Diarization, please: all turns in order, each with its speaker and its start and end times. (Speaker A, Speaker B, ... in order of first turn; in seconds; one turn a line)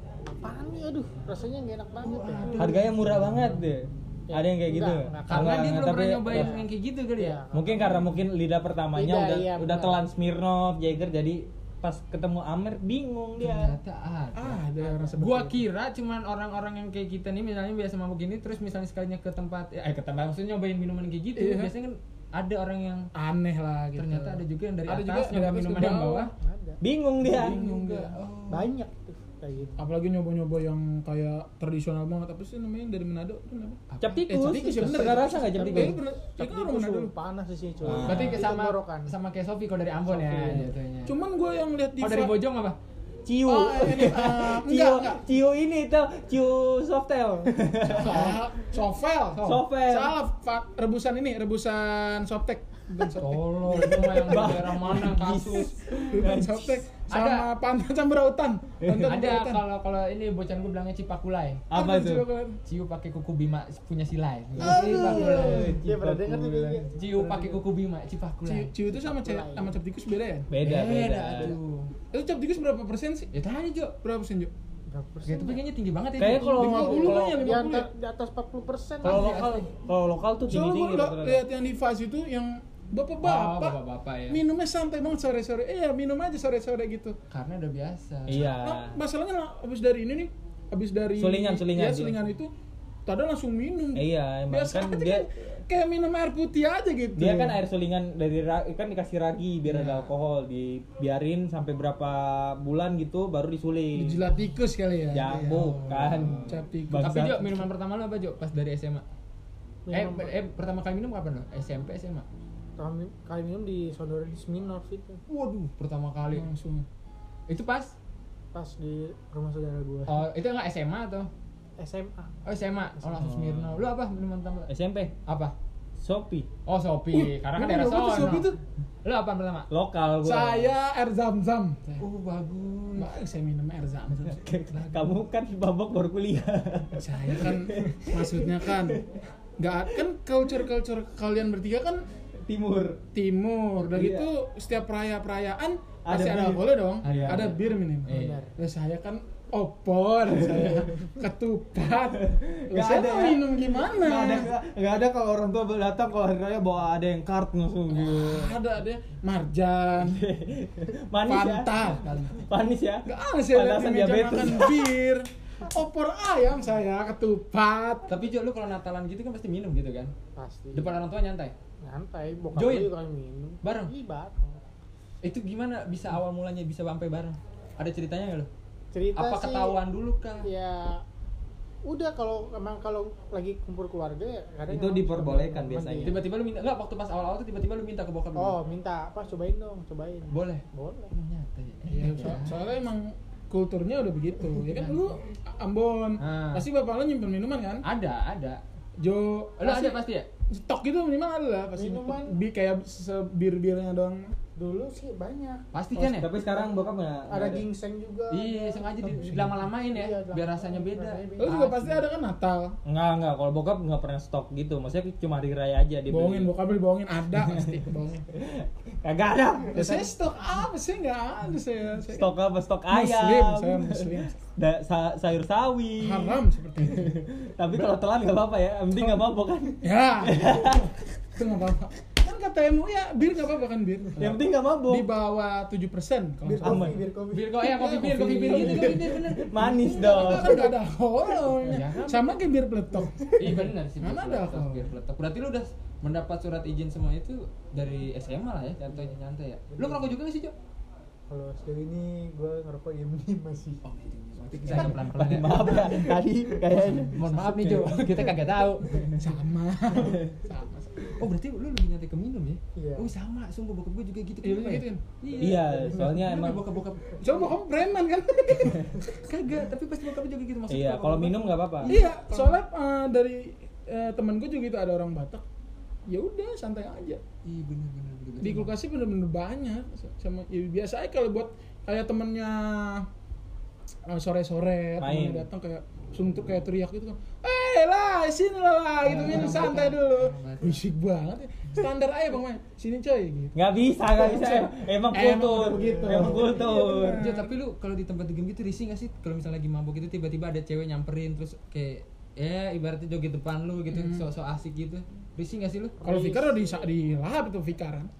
Speaker A: 0.4-2.6
Speaker B: 2.0-3.5
Speaker C: 2.5-6.6
Speaker A: 4.3-6.7
Speaker B: 5.3-7.4
Speaker A: 7.2-8.1
Speaker C: 7.5-13.8
Speaker A: 8.9-10.0
Speaker B: 13.4-14.6
Speaker D: 14.3-15.6
Speaker A: 14.8-15.2
Speaker B: 15.2-23.1
Speaker D: 21.4-21.7
Speaker D: 23.1-26.3
Speaker B: 24.0-26.3
Speaker A: 26.4-26.8
Speaker C: 26.8-27.6
Speaker D: 27.2-28.2
Speaker B: 27.2-28.7
Speaker A: 28.5-29.8
Speaker D: 29.8-37.1
Speaker B: 33.9-34.2
Speaker C: 34.0-36.0
Speaker A: 35.6-39.1
Speaker C: 37.8-38.4
Speaker B: 38.0-41.1
Speaker A: 40.1-40.6
Speaker D: 40.5-42.4
Speaker B: 42.0-42.8
Speaker C: 43.3-48.4
Speaker D: 43.5-45.2
Speaker B: 47.9-48.4
Speaker D: 48.0-55.0
Speaker C: 49.4-50.2
Speaker B: 53.2-55.8
Speaker C: 53.7-56.8
Speaker D: 56.0-59.6
Speaker B: 57.1-57.5
Speaker C: 58.8-59.1
Speaker B: 59.0-61.6
Speaker C: 61.7-62.2
Speaker D: 61.7-62.6
Speaker B: 62.7-65.8
Speaker C: 64.6-66.9
Speaker D: 64.6-65.7
Speaker A: 64.8-67.4
Speaker B: 67.0-68.7
Speaker D: 68.5-70.5
Speaker A: 68.9-69.7
Speaker C: 70.5-71.6
Speaker B: 70.6-71.9
Speaker D: 72.1-73.3
Speaker B: 73.3-74.0
Speaker D: 74.0-74.5
Speaker A: 74.9-75.6
Speaker B: 75.3-76.8
Speaker C: 76.2-77.4
Speaker D: 76.4-77.9
Speaker A: 76.8-79.3
Speaker B: 79.0-79.7
Speaker C: 79.0-81.4
Speaker D: 80.5-83.8
Speaker B: 83.2-84.4
Speaker D: 84.3-87.2
Speaker B: 87.3-88.5
Speaker C: 88.3-89.0
Speaker D: 88.4-92.5
Speaker C: 91.2-92.2
Speaker D: 93.1-97.6
Speaker C: 94.0-95.3
Speaker C: 97.2-104.2
Speaker D: 99.7-100.1
Speaker D: 104.0-107.6
Speaker C: 105.1-107.6
Speaker B: 105.5-109.0
Speaker A: 109.9-110.3
Speaker B: 109.9-112.2
Speaker A: 112.8-115.2
Speaker B: 115.3-116.5
Speaker D: 116.3-116.8
Speaker B: 117.5-118.0
Speaker A: 118.5-120.2
Speaker B: 120.1-121.3
Speaker A: 121.8-122.3
Speaker B: 122.5-124.7
Speaker C: 123.2-123.8
Speaker C: 124.7-125.1
Speaker B: 125.3-125.5
Speaker C: 126.0-126.5
Speaker B: 126.7-128.5
Speaker D: 127.1-128.6
Speaker B: 129.1-129.7
Speaker C: 129.7-130.7
Speaker D: 130.2-132.0
Speaker B: 132.0-133.1
Speaker D: 133.0-135.0
Speaker C: 134.2-139.2
Speaker D: 137.0-139.0
Speaker D: 139.6-142.1
Speaker C: 142.5-143.0
Speaker D: 143.1-154.5
Speaker C: 143.8-144.3
Speaker C: 146.1-147.5
Speaker B: 147.0-148.4
Speaker A: 148.1-148.5
Speaker C: 150.3-150.9
Speaker C: 152.2-158.6
Speaker D: 157.9-160.2
Speaker C: 160.0-164.9
Speaker D: 161.2-162.5
Speaker D: 163.1-168.1
Speaker B: 168.1-170.1
Speaker A: 170.4-171.0
Speaker B: 170.8-171.5
Speaker A: 171.8-174.6
Speaker B: 172.6-172.9
Speaker B: 173.6-173.9
Speaker B: 175.2-178.5
Speaker A: 178.9-179.8
Speaker B: 179.2-180.5
Speaker A: 180.4-181.0
Speaker A: 181.9-186.2
Speaker C: 184.7-186.2
Speaker B: 186.0-188.6
Speaker A: 188.4-191.1
Speaker B: 190.3-192.6
Speaker D: 191.8-197.8
Speaker B: 196.2-196.7
Speaker B: 197.8-198.6
Speaker D: 199.0-204.3
Speaker B: 199.6-200.3
Speaker A: 201.8-202.4
Speaker A: 204.6-205.7
Speaker B: 205.7-206.3
Speaker C: 206.0-207.7
Speaker A: 207.3-211.6
Speaker B: 208.3-212.0
Speaker D: 209.2-209.6
Speaker D: 211.4-212.8
Speaker C: 212.8-216.5
Speaker D: 216.1-218.3
Speaker C: 217.3-220.1
Speaker D: 219.7-222.3
Speaker C: 222.1-230.9
Speaker D: 222.9-224.3
Speaker D: 226.0-227.2
Speaker D: 229.0-229.2
Speaker D: 229.8-237.0
Speaker C: 234.2-235.1
Speaker A: 236.4-237.7
Speaker C: 236.6-237.0
Speaker B: 237.3-240.7
Speaker D: 237.6-244.9
Speaker C: 238.4-240.7
Speaker B: 241.7-242.4
Speaker B: 243.4-250.5
Speaker A: 249.7-250.2
Speaker A: 251.3-253.8
Speaker B: 253.8-256.1
Speaker C: 254.7-257.9
Speaker D: 254.7-258.4
Speaker B: 256.9-259.0
Speaker D: 259.1-261.2
Speaker C: 259.9-260.3
Speaker B: 261.1-267.6
Speaker A: 262.8-263.1
Speaker D: 264.4-266.3
Speaker C: 265.4-266.6
Speaker D: 267.2-269.5
Speaker B: 269.1-272.6
Speaker C: 270.7-271.9
Speaker D: 271.9-275.4
Speaker D: 276.1-277.2
Speaker B: 277.4-278.7
Speaker D: 278.4-283.1
Speaker D: 284.1-297.5
Speaker C: 285.0-285.5
Speaker B: 289.0-290.8
Speaker C: 293.6-297.3
Speaker A: 295.7-296.5
Speaker B: 297.2-306.0
Speaker D: 303.9-304.2
Speaker A: 306.0-306.9
Speaker D: 306.0-308.1